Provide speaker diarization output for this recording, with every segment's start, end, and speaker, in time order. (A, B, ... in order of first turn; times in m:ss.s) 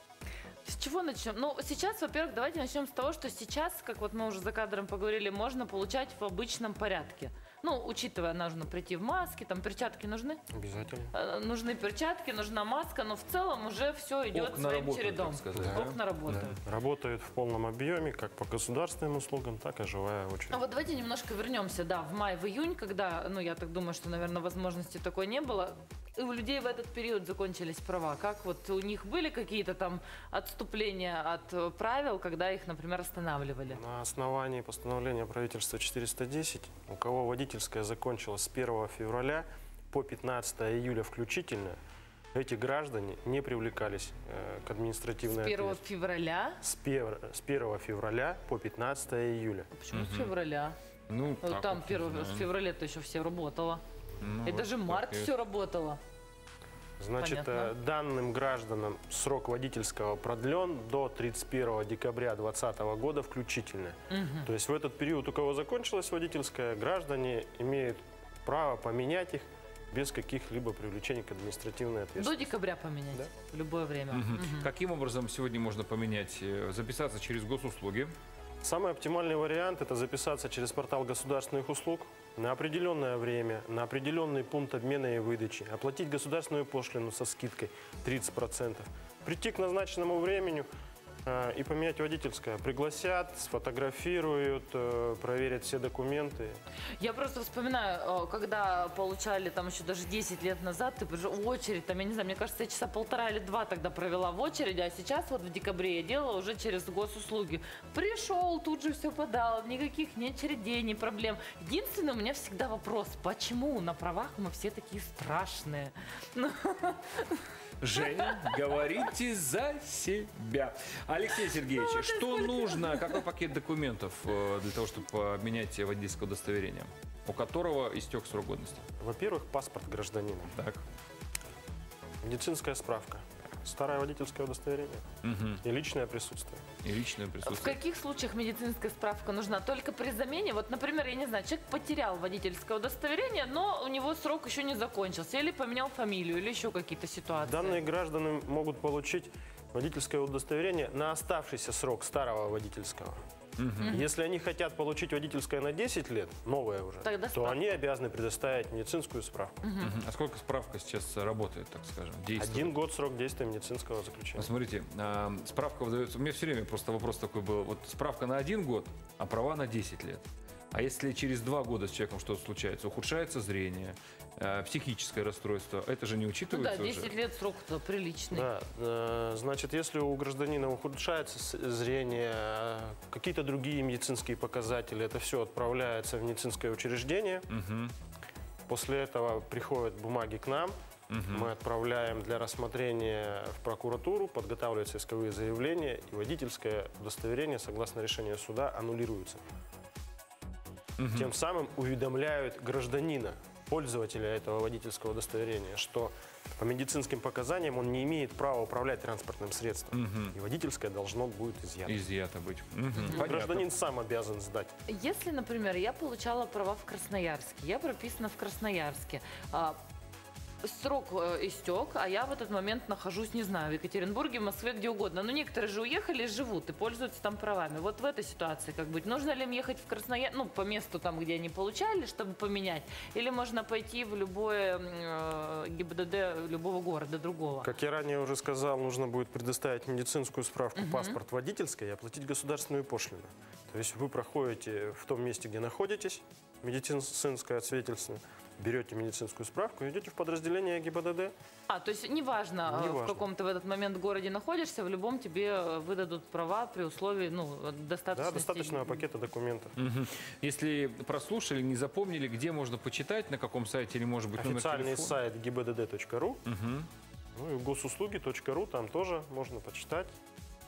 0:00.6-0:10.4 A
0:10.5-0:11.1 B
0:11.1-0:16.6 A
0:14.3-0:16.5 C
0:15.6-0:20.6 B
0:20.5-0:33.8 A
0:33.7-0:41.8 B
0:42.3-0:45.8 B
0:45.3-0:46.6 A
0:46.6-0:49.7 B
0:49.7-0:50.8 A
0:49.9-0:50.3 C
0:51.1-0:52.5 C
0:51.4-0:53.8 A
0:54.2-0:55.3 C
0:54.4-0:56.0 A
0:57.0-1:12.5 B
0:57.2-0:57.7 A
1:04.1-1:04.5 A
1:12.2-1:14.7 A
1:14.1-1:18.1 C
1:18.6-1:30.7 B
1:31.2-1:36.6 B
1:37.0-1:57.4 A
1:57.8-2:08.8 C
1:58.0-1:58.7 A
2:01.4-2:03.2 A
2:09.0-2:10.5 B
2:10.5-2:10.8 C
2:12.2-2:15.0 B
2:15.2-2:15.6 C
2:15.6-2:16.6 B
2:16.8-2:17.8 C
2:17.4-2:27.8 A
2:27.4-2:33.2 B
2:33.6-2:34.0 C
2:33.8-2:34.1 A
2:33.8-2:39.6 B
2:37.0-2:37.8 A
2:39.6-2:39.9 A
2:39.8-2:42.7 C
2:42.4-2:44.5 B
2:44.4-2:57.1 C
2:56.5-2:58.5 A
2:58.3-3:07.5 B
3:07.5-3:07.9 C
3:08.7-3:10.7 B
3:11.1-3:11.5 C
3:11.3-3:19.4 B
3:21.0-3:21.3 C
3:21.1-3:32.0 B
3:29.9-3:30.3 C
3:31.8-3:33.6 C
3:33.0-3:33.2 A
3:33.0-3:34.7 B
3:34.9-3:39.8 A
3:40.6-3:57.7 A
3:57.6-4:11.3 B
4:00.7-4:01.2 A
4:11.7-4:19.0 A
4:12.6-4:13.2 B
4:18.1-4:19.7 B
4:19.8-4:25.2 C
4:24.4-4:26.4 B
4:26.4-4:26.9 C
4:27.4-4:30.1 B